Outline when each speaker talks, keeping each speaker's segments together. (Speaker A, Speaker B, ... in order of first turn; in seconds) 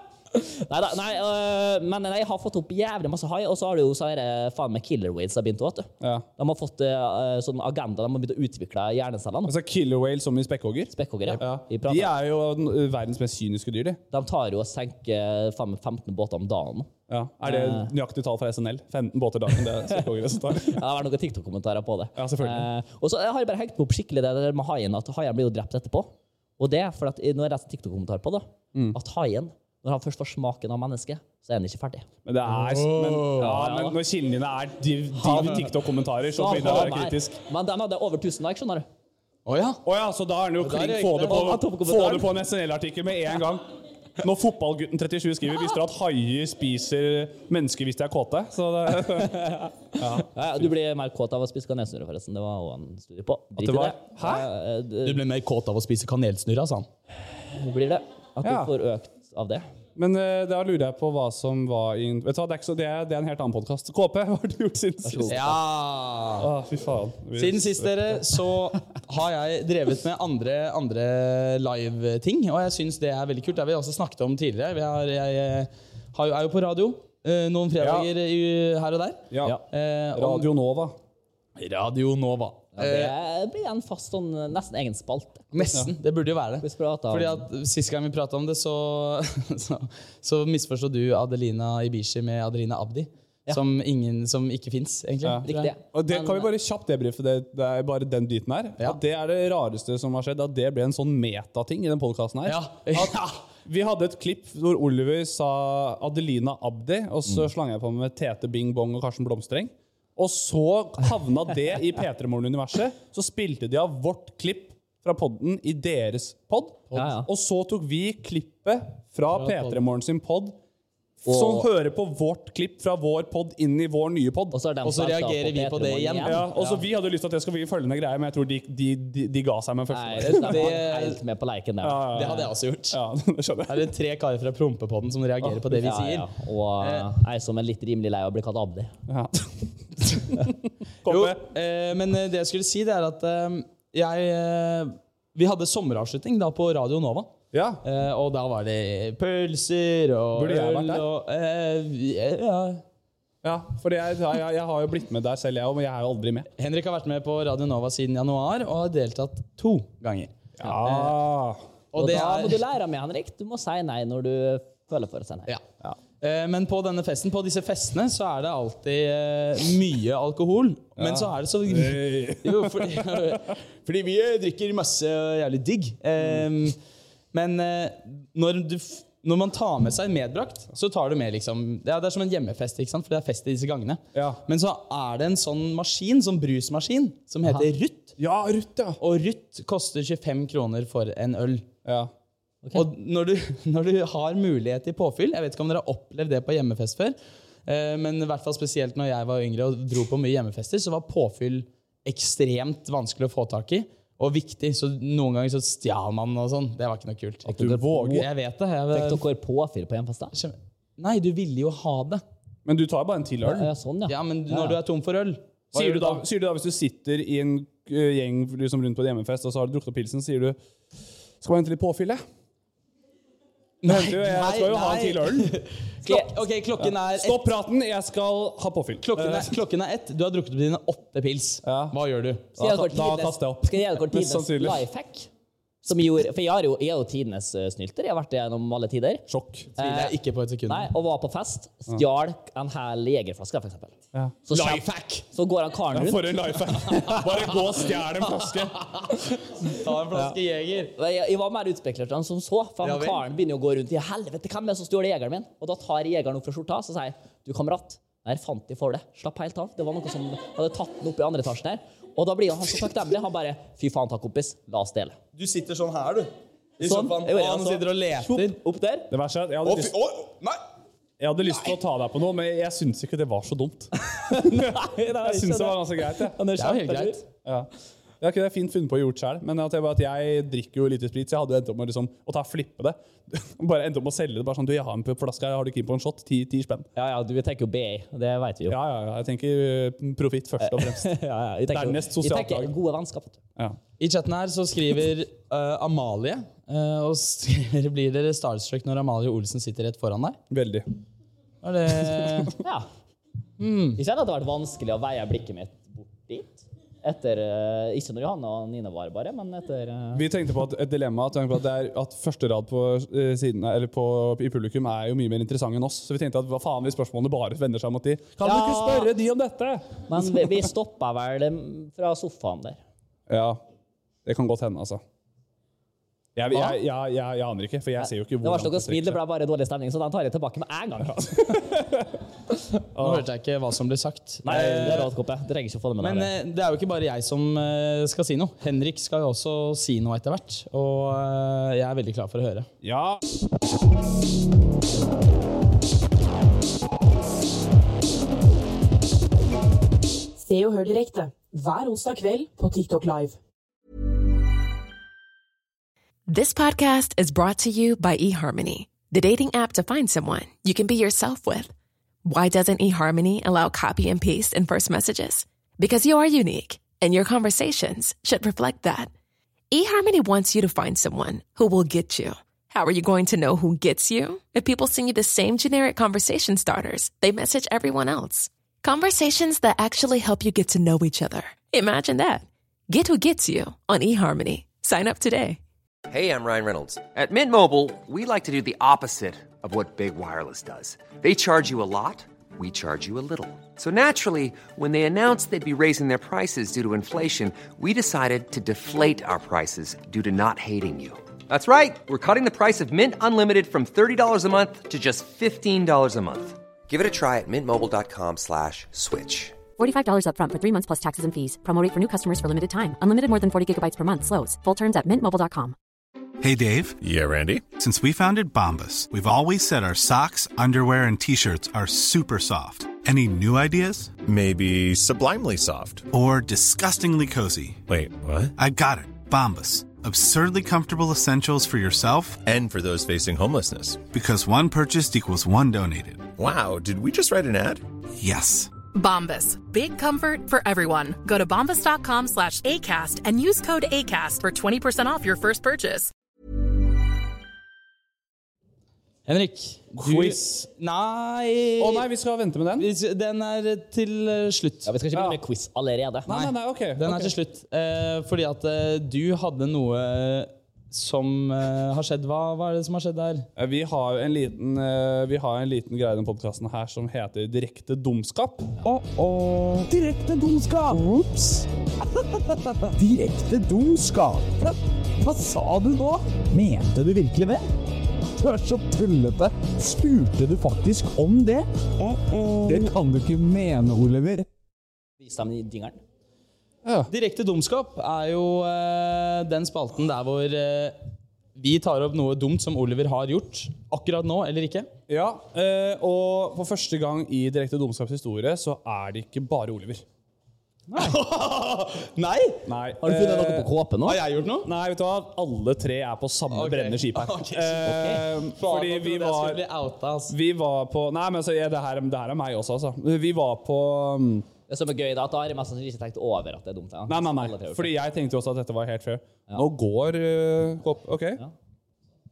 Speaker A: 0.3-9.5, 10.9-12.1, 14.1-16.9, 17.4-17.9, 20.6-32.0, 33.4-34.0, 35.2-35.6, 36.3-38.9, 41.2-42.3, 49.1-55.2, 57.5-59.6, 65.0-65.6, 82.8-85.7, 86.6-87.4, 95.4-96.5, 116.9-117.3, 121.2-121.7, 124.5-126.5, 129.9-132.5, 135.8-138.9, 161.9-165.5, 207.5-208.2, 208.9-210.3, 213.4-214.8, 232.6-235.3, 235.8-239.2, 239.8-240.1, 240.7-247.0, 250.9-265.2, 266.8-269.1, 274.2-277.2, 286.9-288.8, 290.6-293.4, 302.6-302.9, 303.9-310.2, 318.4-319.1, 320.1-322.8, 326.5-326.8, 328.0-331.3, 334.4-336.3, 454.9-456.5, 485.2-486.0, 503.0-504.2, 507.8-508.2, 514.7-517.9
Speaker B: 6.0-6.2, 9.5-14.0, 17.1-20.8, 22.1-22.7, 32.2-37.4, 39.8-43.6, 44.2-49.3, 50.0-50.7, 53.6-54.5, 58.4-58.7, 60.0-65.5, 66.4-68.2, 77.8-78.1, 79.3-79.6, 80.1-81.0, 95.2-120.6, 121.2-124.5, 126.2-130.7, 131.8-133.9, 139.1-140.5, 141.0-141.4, 147.5-147.8, 150.4-151.1, 153.4-156.5, 160.6-161.6, 171.0-173.4, 184.1-184.4, 188.2-189.0, 191.8-192.1, 207.5-208.3, 212.6-213.7, 215.7-220.6, 221.4-222.2, 223.8-225.5, 226.8-229.5, 231.6-231.9, 232.6-234.8, 239.3-239.7, 245.9-248.9, 269.1-269.9, 271.2-276.4, 278.2-286.9, 288.7-291.1, 291.7-292.7, 300.5-300.9, 302.2-302.5, 310.1-320.7, 323.3-323.6, 324.2-325.0, 326.4-329.2, 331.1-332.1, 332.9-333.2, 342.8-343.2, 450.0-450.4, 451.8-452.9, 455.1-455.4, 456.2-457.3, 463.6-468.7, 482.7-482.9, 486.8-487.1, 495.1-500.0, 502.6-503.7, 504.6-509.6, 510.3-514.5, 517.1-521.4
Speaker C: 32.5-33.5, 39.5-39.8, 40.6-41.5, 55.0-56.9, 65.3-66.5, 67.3-80.5, 81.6-83.1, 85.5-95.7, 102.5-103.4, 119.3-119.8, 124.8-126.8, 130.2-131.2, 132.1-133.0, 133.7-136.3, 136.8-137.1, 141.1-147.3, 147.8-152.8, 156.6-160.3, 160.8-161.1, 161.9-162.6, 166.2-176.8, 177.3-188.1, 189.0-191.7, 192.7-209.2, 210.3-212.2, 214.1-216.2, 223.8-227.5, 229.0-232.5, 239.8-240.9, 244.5-245.2, 246.9-250.9, 252.8-253.2, 265.3-268.5, 269.6-270.6, 276.6-277.2, 294.0-300.4, 301.6-302.5, 303.6-304.0, 333.0-335.1, 336.0-342.7, 449.2-452.1, 452.8-454.9, 457.0-463.4, 468.9-471.1, 473.0-474.5, 475.2-475.9, 476.6-477.6, 487.1-491.0, 491.6-494.9, 500.9-502.6, 504.0-504.7, 506.5-510.3
Speaker D: 350.4-353.4
Speaker E: 356.3-361.7, 362.2-369.1, 369.7-385.6
Speaker F: 386.1-409.6
Speaker G: 409.8-415.7
Speaker H: 416.4-417.0, 417.7-424.2, 426.1-427.8, 428.6-432.4, 434.1-436.3, 438.2-438.7
Speaker I: 417.0-417.7, 424.2-426.1, 427.9-428.5, 432.4-434.1, 436.4-437.8
Speaker J: 438.9-446.1